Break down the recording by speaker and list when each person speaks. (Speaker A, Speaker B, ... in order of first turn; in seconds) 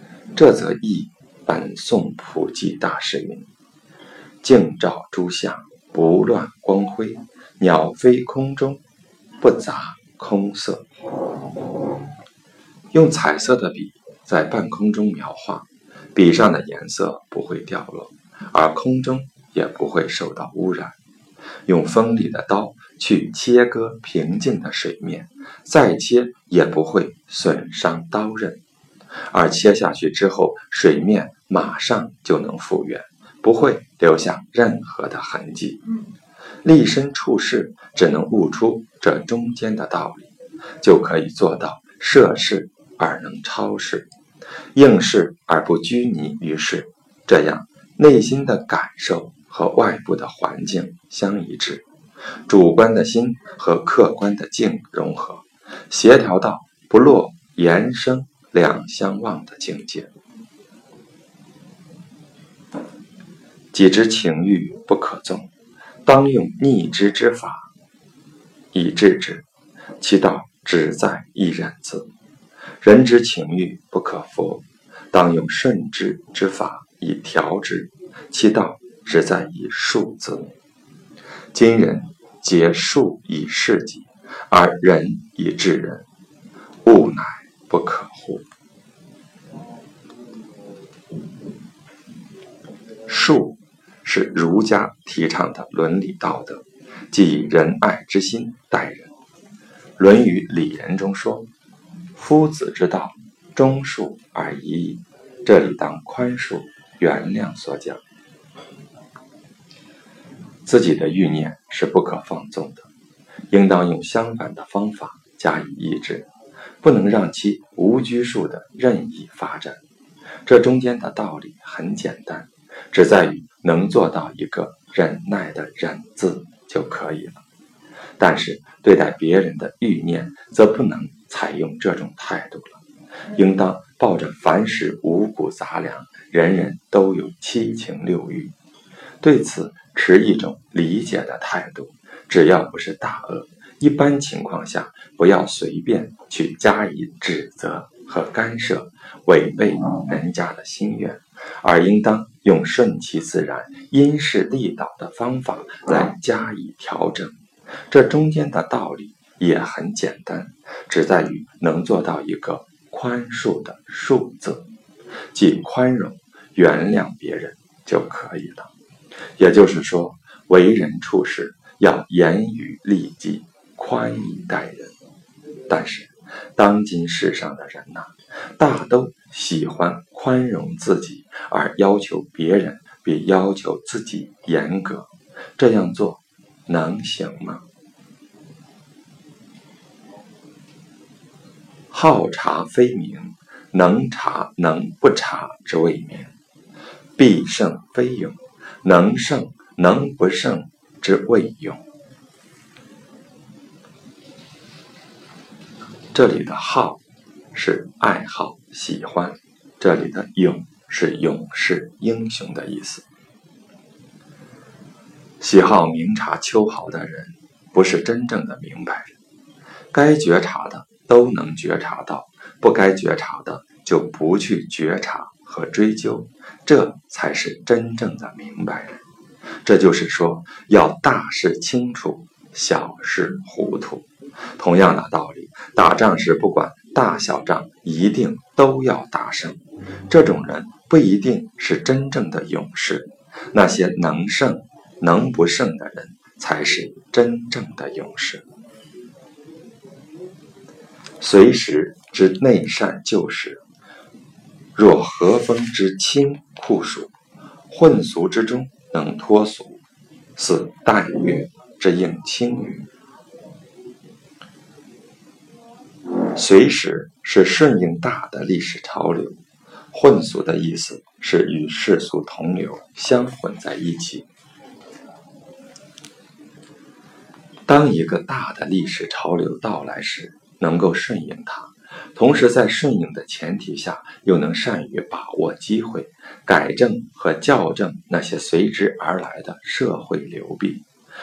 Speaker A: 0.3-3.5, 4.4-8.8, 9.4-10.9, 12.9-21.0, 21.7-28.6, 29.3-35.8, 36.6-44.1, 44.8-51.9, 52.5-60.1, 63.7-65.5, 66.1-67.7, 68.7-69.5, 70.0-72.1, 72.8-80.5, 81.5-86.1, 86.8-88.4, 93.1-99.1, 100.0-101.5, 102.2-108.0, 110.7-112.9, 113.5-116.3, 116.8-119.8, 120.5-127.4, 128.2-132.8, 133.3-138.5, 139.2-157.4, 157.9-164.7, 165.3-168.7, 169.4-174.9, 175.7-187.6, 191.9-196.3, 197.2-201.8, 206.1-207.0, 207.5-213.1, 215.4-219.1, 219.9-229.0, 229.6-248.4, 251.2-253.6, 254.8-257.1, 257.7-259.8, 260.4-262.9, 266.3-269.4, 269.9-274.3, 277.7-290.9